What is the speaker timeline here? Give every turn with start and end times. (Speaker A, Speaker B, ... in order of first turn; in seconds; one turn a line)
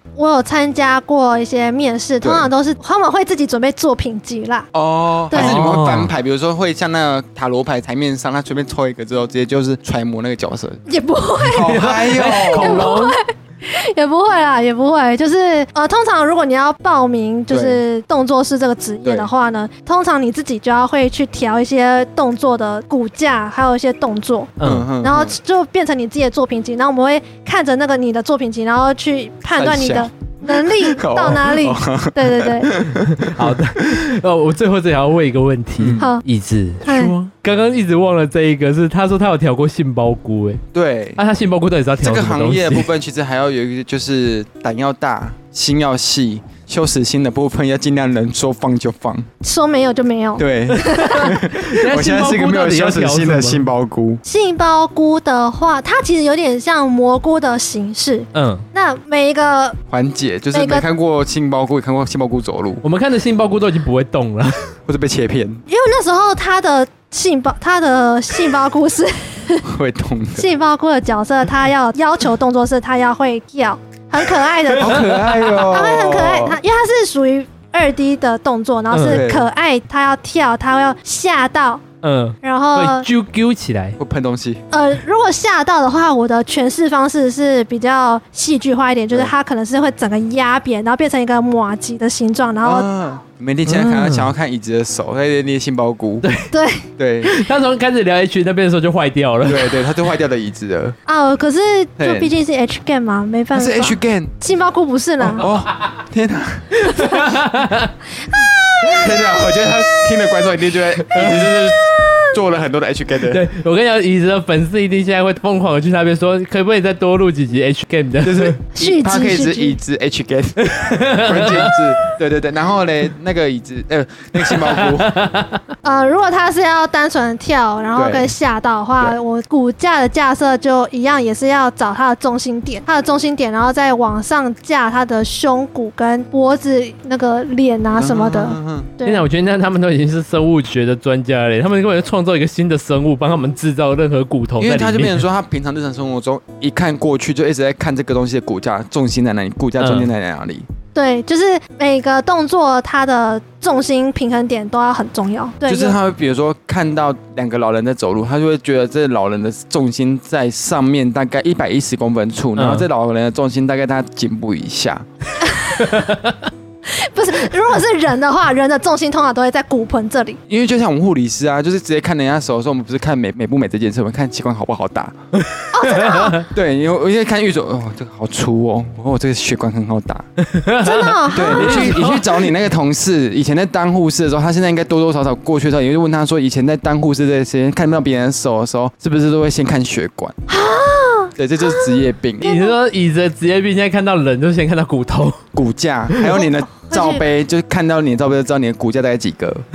Speaker A: 0.2-4.7
Speaker B: 2.2-2.5
Speaker B: 4.7-10.8
Speaker A: 5.3-5.6
Speaker C: 5.3-6.1
Speaker A: 10.9-32.7
Speaker B: 11.4-13.0
Speaker C: 11.6-13.2
Speaker B: 17.5-17.8
Speaker C: 24.6-24.9
Speaker B: 24.6-25.4
Speaker B: 29.6-34.0
Speaker C: 33.0-40.6
Speaker B: 35.8-36.0
Speaker A: 36.0-36.2
Speaker A: 36.8-37.1
Speaker B: 40.7-41.2
Speaker C: 41.2-42.9
Speaker B: 42.0-49.3
Speaker A: 49.4-51.4
Speaker B: 50.4-54.2
Speaker C: 50.9-53.6
Speaker A: 54.2-59.8
Speaker C: 58.3-58.6
Speaker B: 59.9-62.8
Speaker A: 60.5-60.9
Speaker C: 62.8-64.7
Speaker B: 64.9-65.6
Speaker A: 65.7-69.7
Speaker B: 69.6-70.5
Speaker A: 70.3-81.8
Speaker B: 74.8-76.6
Speaker C: 74.9-75.2
Speaker C: 78.9-79.2
Speaker B: 79.0-79.5
Speaker C: 82.0-84.0
Speaker A: 82.4-83.1
Speaker B: 84.0-84.6
Speaker A: 84.7-92.9
Speaker B: 92.6-96.3
Speaker C: 93.7-94.3
Speaker C: 96.2-96.5
Speaker A: 96.5-96.9
Speaker B: 97.0-97.3
Speaker C: 97.2-99.9
Speaker B: 99.5-101.0
Speaker A: 101.1-105.5
Speaker B: 102.0-102.3
Speaker B: 103.5-104.3
Speaker B: 105.2-106.8
Speaker C: 106.8-107.9
Speaker A: 106.9-107.3
Speaker A: 108.2-109.1
Speaker B: 108.8-113.5
Speaker C: 111.1-111.5
Speaker A: 111.9-112.3
Speaker C: 113.3-118.6
Speaker B: 118.2-125.2
Speaker A: 118.8-119.8
Speaker C: 120.6-122.1
Speaker C: 124.4-125.6
Speaker A: 125.8-139.3
Speaker B: 128.0-128.3
Speaker B: 137.9-138.9
Speaker C: 139.0-145.2
Speaker B: 144.6-150.7
Speaker C: 149.8-150.1
Speaker A: 150.9-156.0
Speaker B: 155.6-165.1
Speaker C: 162.6-162.9
Speaker A: 165.4-166.1
Speaker C: 165.8-166.3
Speaker A: 166.9-170.4
Speaker B: 170.5-175.1
Speaker C: 175.4-176.4
Speaker A: 175.7-176.4
Speaker B: 176.5-180.3
Speaker C: 180.4-182.5
Speaker A: 180.8-182.0
Speaker B: 181.3-190.4
Speaker A: 190.5-192.7
Speaker B: 191.4-192.6
Speaker C: 192.4-195.4
Speaker B: 195.6-199.6
Speaker A: 196.3-197.3